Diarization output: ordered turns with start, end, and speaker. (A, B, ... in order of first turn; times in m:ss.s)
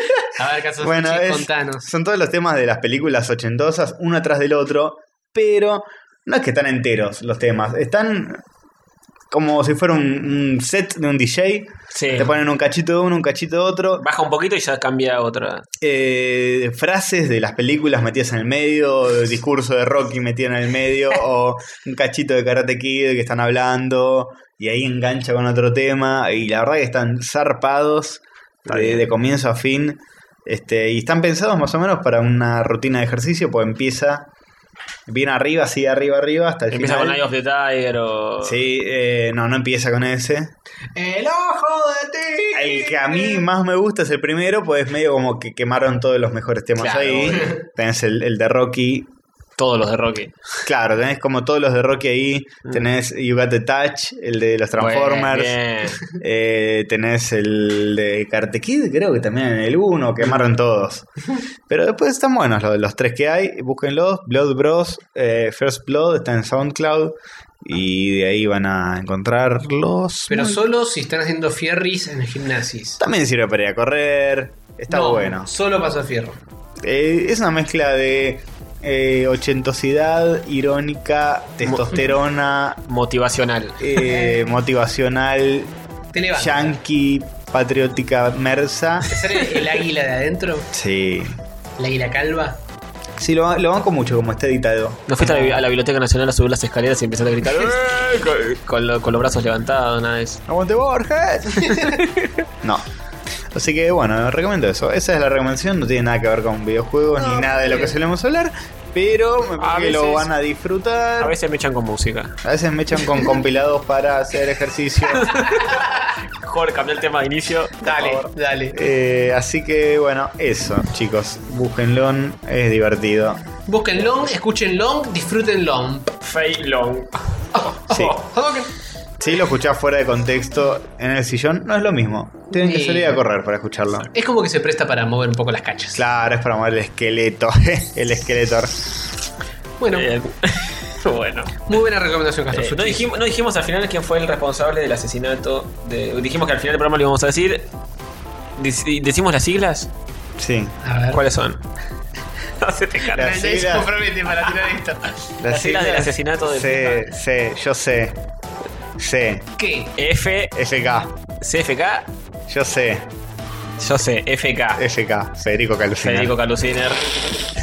0:00.2-0:01.9 A
0:00.8-0:08.4 B
0:09.3-0:14.0 B
0:11.9-0:12.3 C
0:14.0-0:15.6 C
0:15.8-0:34.3 B
0:28.7-0:29.0 C
0:35.1-0:37.2 B
0:36.7-0:38.6 C
0:38.4-0:40.5 B
0:41.0-0:43.4 A
0:42.5-0:49.1 B
0:46.8-0:47.6 C
0:49.6-0:50.4 C
0:50.6-1:01.1 B
0:54.8-0:56.1 C
1:01.7-1:10.6 B
1:10.3-1:13.0 A
1:13.0-1:15.5 B
1:14.9-1:16.4 A
1:16.8-1:22.8 B
1:21.6-1:22.0 C
1:22.9-1:23.9 C
1:23.8-1:25.7 B
1:24.0-1:24.5 A
1:26.1-1:26.7 A
1:26.3-1:29.3 B
1:29.1-1:30.7 A
1:30.7-1:31.4 B
1:31.8-1:32.6 A
1:33.2-1:35.6 B
1:35.1-1:40.4 C
1:40.5-1:42.0 B
1:41.6-1:42.4 C
1:43.5-1:51.4 B
1:47.2-1:47.9 A
1:49.6-1:50.3 C
1:51.2-1:52.4 C
1:52.4-1:55.5 B
1:55.2-1:58.0 C
1:55.3-1:55.8 A
1:57.8-1:58.8 A
1:57.9-2:03.4 B
2:03.7-2:06.1 A
2:06.2-2:08.2 C
2:07.5-2:08.7 A
2:07.9-2:08.2 B
2:09.2-2:14.1 B
2:12.5-2:13.2 A
2:14.1-2:16.0 A
2:15.9-2:18.8 B
2:19.8-2:20.1 A
2:19.9-2:21.7 C
2:21.7-2:23.1 A
2:22.5-2:27.7 C
2:28.6-2:29.9 C
2:30.4-2:30.7 B
2:30.8-2:31.2 A
2:31.1-2:31.6 C
2:32.6-2:33.3 C
2:33.1-2:35.1 A
2:33.1-2:33.9 B
2:35.4-2:38.2 B
2:35.5-2:37.1 C
2:39.0-2:39.4 B
2:39.6-2:40.0 A
2:40.0-2:40.5 C
2:40.5-2:41.1 B
2:41.4-2:42.1 C
2:42.5-2:43.1 B
2:43.8-2:44.8 C
2:44.8-2:46.3 B
2:46.0-2:47.1 C